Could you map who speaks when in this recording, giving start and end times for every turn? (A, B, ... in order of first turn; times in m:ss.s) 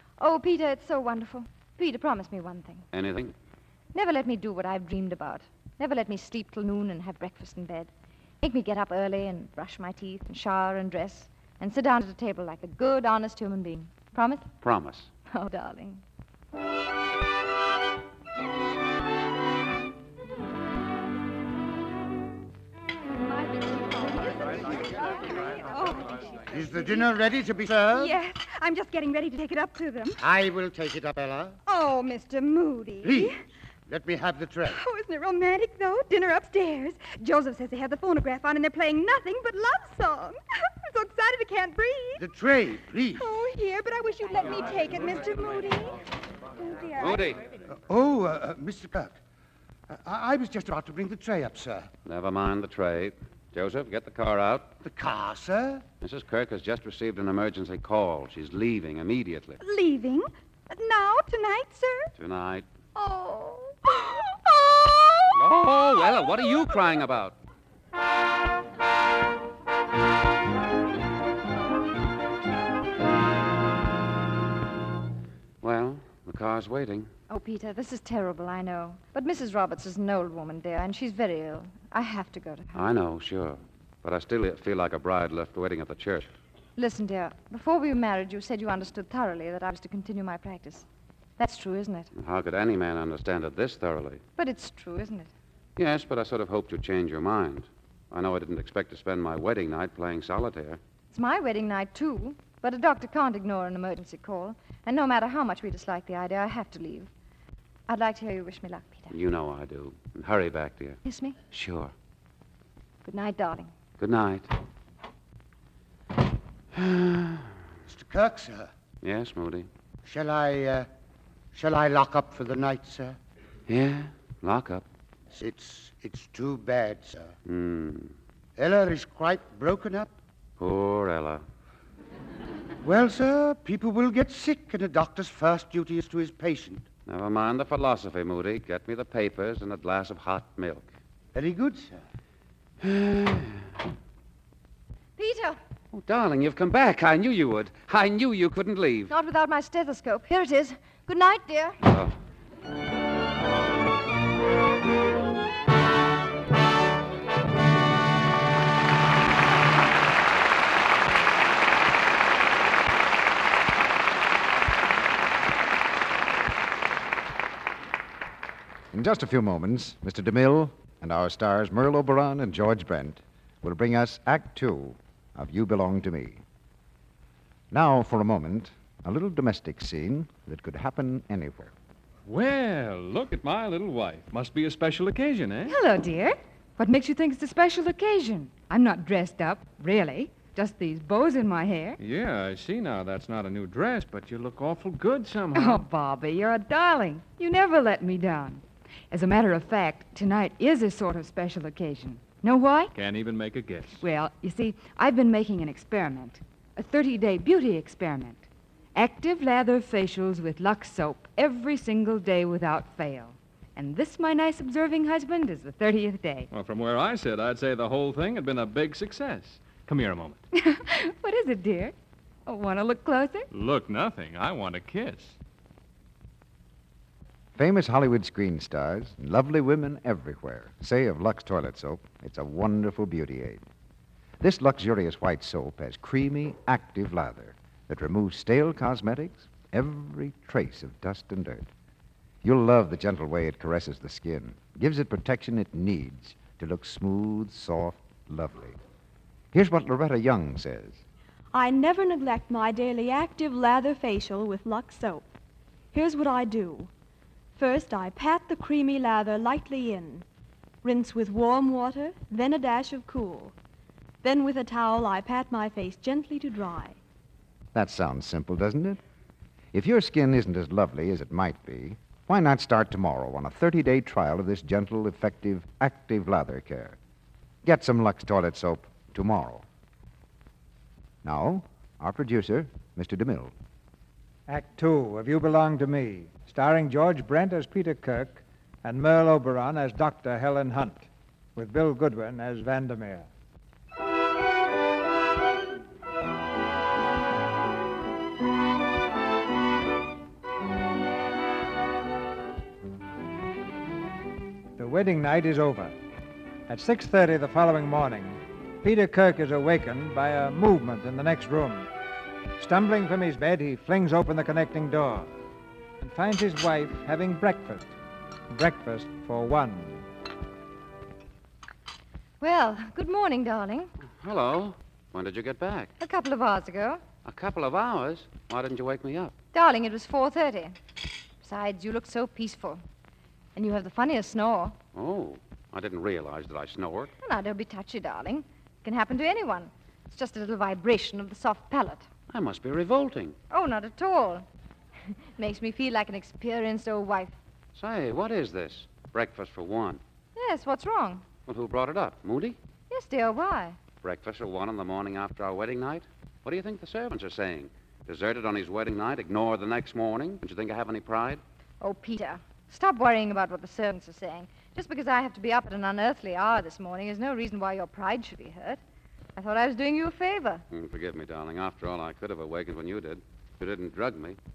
0:00.2-0:02.9 A
0:02.9-0:03.3 B
0:03.9-0:07.9 A
0:08.4-0:14.5 A
0:14.6-0:15.1 B
0:15.3-0:16.0 A
0:23.3-0:27.1 C
0:26.5-0:28.2 D
0:27.9-0:30.2 C
0:30.2-0:31.6 D
0:31.7-0:33.4 C
0:33.0-0:33.4 D
0:33.9-0:34.8 D
0:34.7-0:42.2 C
0:42.2-0:43.3 D
0:43.2-0:46.0 C
0:46.6-0:47.3 C
0:47.0-0:47.4 B
0:47.9-0:49.2 D
0:49.9-0:51.9 D
0:52.1-0:54.7 B
0:54.8-0:55.8 D
0:56.0-0:59.6 B
0:59.6-1:02.1 C
1:02.2-1:02.7 B
1:03.0-1:06.6 C
1:05.3-1:07.4 B
1:15.6-1:17.1 B
1:17.3-1:22.8 A
1:22.8-1:26.3 B
1:26.8-1:30.9 A
1:31.4-1:32.1 A
1:32.2-1:34.2 B
1:34.4-1:35.3 A
1:35.8-1:40.8 B
1:41.1-1:47.1 A
1:47.9-1:49.1 A
1:49.1-1:51.0 B
1:51.0-1:51.4 A
1:51.5-1:51.9 B
1:53.0-1:53.7 A
1:54.0-1:54.5 B
1:56.7-1:57.5 B
1:57.9-1:58.7 D
1:59.0-1:59.7 B
2:00.0-2:00.9 D
2:01.5-2:03.2 D
2:03.7-2:04.8 B
2:05.3-2:07.3 D
2:07.5-2:08.1 B
2:08.6-2:10.1 D
2:10.6-2:11.4 B
2:12.8-2:16.8 D
2:17.1-2:20.9 B
2:21.4-2:22.0 D
2:22.8-2:23.7 B
2:25.2-2:25.6 A
2:25.9-2:29.1 B
2:29.1-2:31.8 A
2:31.9-2:32.1 B
2:48.9-2:56.4 E
2:57.7-3:01.7 E
3:02.3-3:05.8 F
3:05.7-3:12.0 G
3:12.0-3:15.9 F
3:15.6-3:22.9 G
3:22.9-3:24.0 F
3:24.0-3:36.5 G
3:36.5-3:40.4 F
3:40.5-3:42.0 G
3:42.5-3:43.5 G
3:43.5-3:45.4 F
3:47.6-3:53.6 E
3:54.4-4:01.7 E
4:02.4-4:08.8 E
4:09.5-4:11.0 E
4:11.5-4:15.3 H
4:15.9-4:16.9 H
4:17.6-4:20.2 H
4:20.8-4:23.5 H
4:24.2-4:27.0 H
4:27.7-4:29.0 E
4:29.7-4:37.0 E
4:37.6-4:39.6 E
4:41.2-4:43.5 E
4:44.5-4:53.3 I
5:04.8-5:06.0 I
5:06.7-5:11.9 I
5:12.6-5:15.3 I
5:16.0-5:17.9 I
5:18.5-5:20.0 I
5:22.4-5:23.9 A
5:24.2-5:25.9 B
5:26.0-5:27.0 A
5:27.2-5:29.3 B
5:29.5-5:30.8 A
5:31.4-5:32.8 A
5:33.6-5:34.8 A
5:35.0-5:37.1 B
5:37.2-5:42.1 A
5:42.3-5:43.4 B
5:43.5-5:44.5 A
5:45.4-5:47.3 A
5:47.8-5:50.0 B
5:50.4-5:51.2 A
5:51.5-5:52.6 B
5:52.9-5:53.8 A
5:54.0-6:01.4 B
6:01.8-6:08.8 A
6:09.4-6:10.6 A
6:10.7-6:14.4 B